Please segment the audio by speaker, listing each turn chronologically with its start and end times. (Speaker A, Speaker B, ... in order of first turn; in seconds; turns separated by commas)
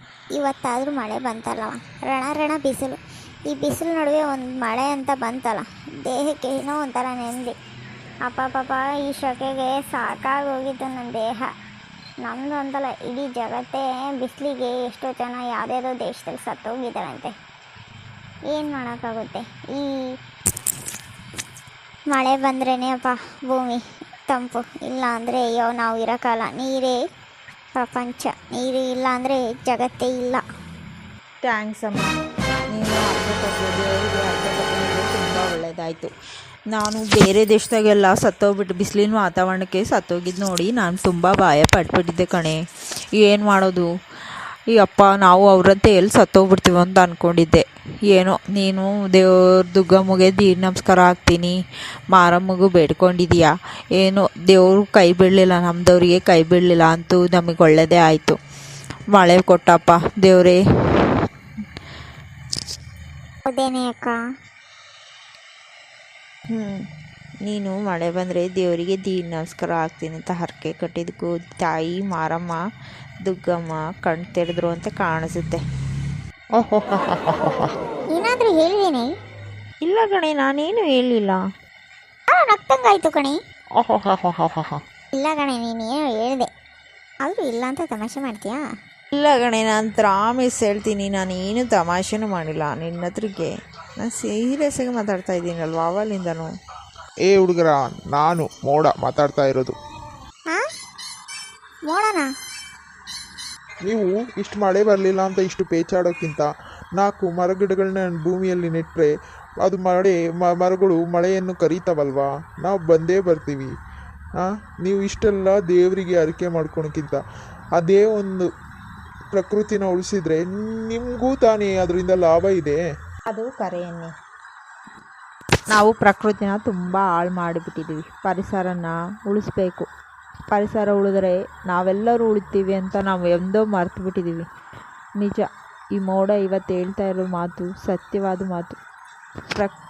Speaker A: 0.3-3.0, Speaker A: 3.5-7.5, Speaker A: 8.2-11.5, Speaker A: 12.2-17.3, Speaker A: 18.5-20.0, Speaker A: 22.1-27.0, Speaker A: 27.8-30.4, Speaker B: 31.4-32.1, Speaker B: 32.7-36.1, Speaker B: 36.7-42.6, Speaker B: 43.2-43.9, Speaker B: 44.7-51.6, Speaker B: 52.1-58.4, Speaker B: 59.1-60.6, Speaker A: 63.5-64.2, Speaker B: 66.5-66.8, Speaker B: 67.5-72.6, Speaker B: 73.2-75.6, Speaker C: 76.6-77.7, Speaker A: 78.1-79.1, Speaker B: 79.8-81.4, Speaker A: 82.3-83.4, Speaker C: 83.8-84.8, Speaker A: 85.1-86.5, Speaker A: 87.2-88.6, Speaker B: 89.1-96.5, Speaker C: 97.3-99.7, Speaker A: 101.9-102.3, Speaker C: 103.8-109.1, Speaker C: 109.6-113.7, Speaker C: 114.4-117.2, Speaker C: 117.8-118.5, Speaker C: 119.3-122.8, Speaker B: 123.3-124.1, Speaker B: 125.7-129.9, Speaker B: 130.5-134.5, Speaker B: 135.2-138.8